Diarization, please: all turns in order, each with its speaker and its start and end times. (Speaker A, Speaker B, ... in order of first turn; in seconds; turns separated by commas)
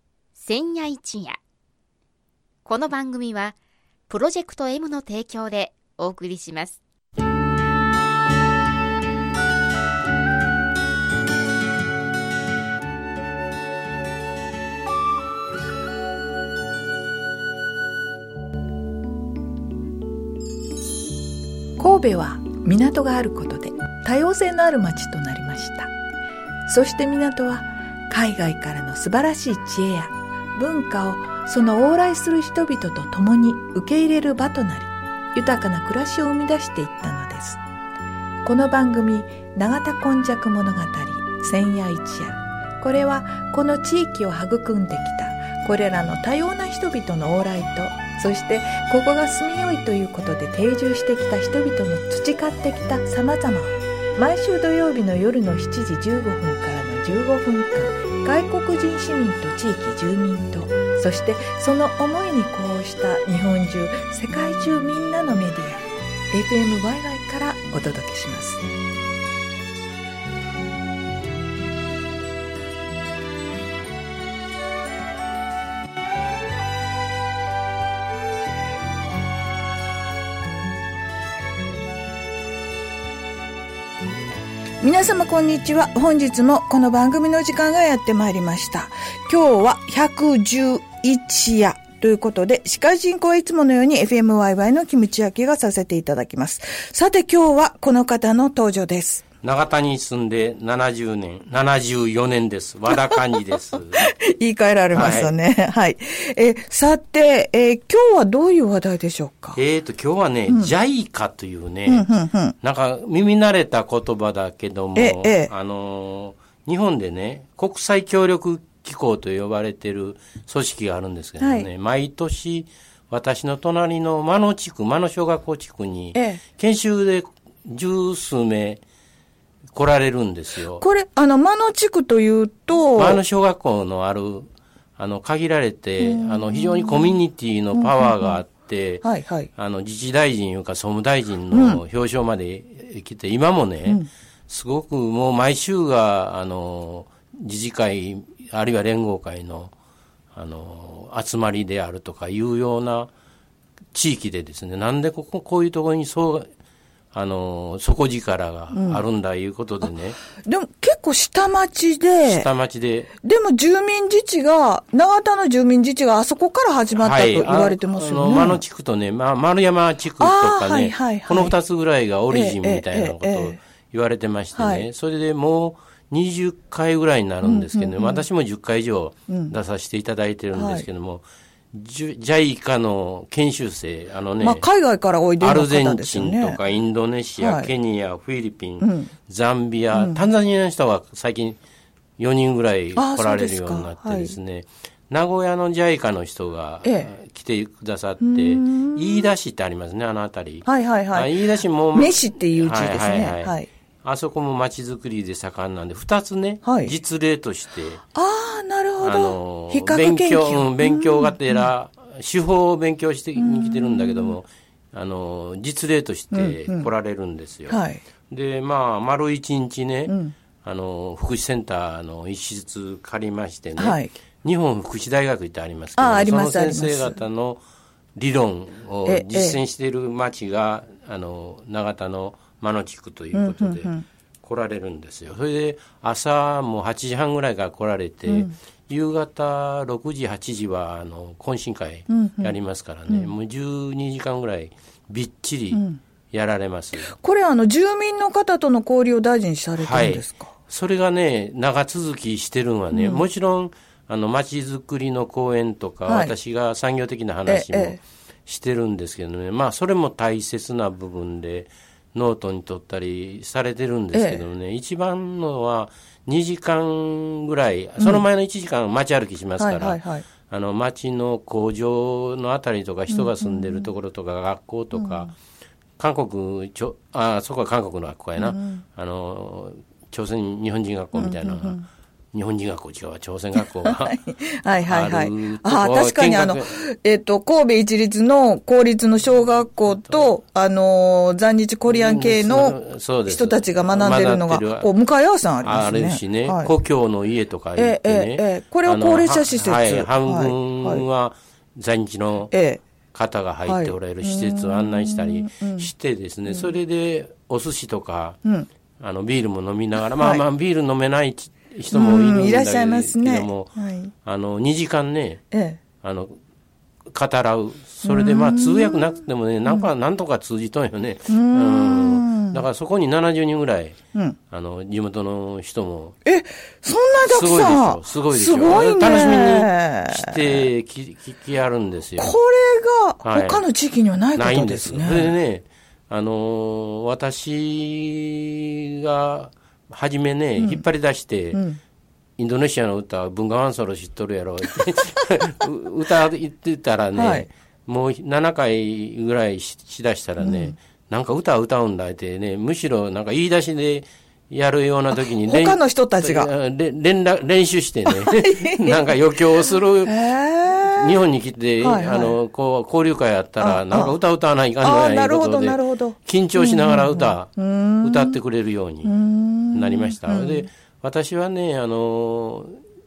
Speaker A: 0.3-1.4, Speaker A: 2.6-3.5, Speaker A: 4.1-6.8, Speaker B: 21.8-25.9, Speaker B: 26.6-37.6, Speaker B: 38.4-68.6, Speaker B: 84.8-99.2, Speaker C: 99.4-104.1, Speaker B: 103.9-109.6, Speaker C: 104.9-105.3, Speaker C: 109.5-112.1, Speaker B: 110.5-110.7, Speaker B: 111.8-112.5, Speaker C: 112.6-128.8, Speaker B: 114.9-115.5, Speaker B: 121.4-121.7, Speaker B: 126.1-126.4, Speaker C: 129.7-130.8, Speaker B: 130.8-133.2, Speaker C: 132.9-149.7, Speaker B: 136.0-137.2, Speaker B: 137.7-138.4, Speaker B: 139.0-139.5, Speaker B: 141.5-141.8, Speaker C: 150.3-153.1, Speaker C: 153.9-156.5, Speaker C: 157.1-160.2, Speaker B: 158.7-159.0, Speaker B: 159.8-162.5, Speaker C: 162.2-163.1, Speaker B: 163.2-168.6, Speaker C: 166.9-184.7, Speaker B: 170.2-171.6, Speaker B: 172.3-173.6, Speaker B: 174.5-174.9, Speaker B: 177.4-178.2, Speaker B: 179.3-179.5, Speaker B: 180.5-180.9, Speaker B: 184.4-186.6, Speaker C: 185.4-191.6, Speaker B: 187.4-187.7, Speaker B: 188.8-189.1, Speaker B: 189.9-190.2, Speaker C: 192.2-208.0, Speaker B: 192.9-194.3, Speaker B: 196.8-197.1, Speaker B: 198.2-199.3, Speaker B: 200.6-201.3, Speaker B: 201.9-203.7, Speaker B: 206.6-206.9, Speaker B: 208.1-211.4, Speaker C: 209.0-217.8, Speaker B: 213.4-214.4, Speaker B: 216.3-216.9, Speaker B: 217.7-218.0, Speaker C: 218.3-227.6, Speaker B: 220.1-220.3, Speaker B: 223.8-224.1, Speaker B: 225.9-227.2, Speaker C: 228.2-247.1, Speaker B: 229.0-229.6, Speaker B: 233.3-234.0, Speaker B: 242.1-242.6, Speaker B: 245.7-246.0, Speaker B: 247.1-250.5, Speaker C: 249.8-275.3, Speaker B: 252.9-253.2, Speaker B: 256.1-256.3, Speaker B: 257.4-258.0, Speaker B: 264.1-264.4, Speaker B: 269.6-270.2, Speaker B: 273.1-273.8, Speaker B: 274.9-275.3, Speaker C: 276.0-284.2, Speaker B: 278.4-278.8, Speaker B: 281.1-281.8, Speaker B: 283.6-296.7, Speaker C: 284.8-286.8, Speaker C: 289.8-290.3, Speaker C: 291.9-294.9, Speaker C: 295.6-302.5, Speaker B: 297.8-301.0, Speaker B: 302.5-302.8, Speaker C: 303.1-308.4, Speaker B: 303.6-305.9, Speaker C: 309.0-313.7, Speaker B: 311.9-314.1, Speaker C: 314.2-315.4, Speaker B: 315.5-315.8, Speaker C: 316.0-316.4, Speaker C: 317.1-324.0, Speaker B: 318.0-319.1, Speaker B: 321.3-322.6, Speaker C: 324.5-326.1, Speaker B: 326.2-330.6, Speaker C: 327.2-332.3, Speaker B: 332.2-335.3, Speaker C: 333.2-333.7, Speaker C: 334.3-341.6, Speaker B: 340.6-340.8, Speaker B: 341.5-341.8, Speaker C: 342.4-369.1, Speaker B: 347.1-347.5, Speaker B: 350.4-350.7, Speaker B: 355.1-356.5, Speaker B: 358.1-359.0, Speaker B: 360.1-361.1, Speaker B: 361.8-362.4, Speaker B: 363.6-364.1, Speaker B: 364.8-368.4, Speaker B: 369.0-370.7, Speaker C: 369.7-372.8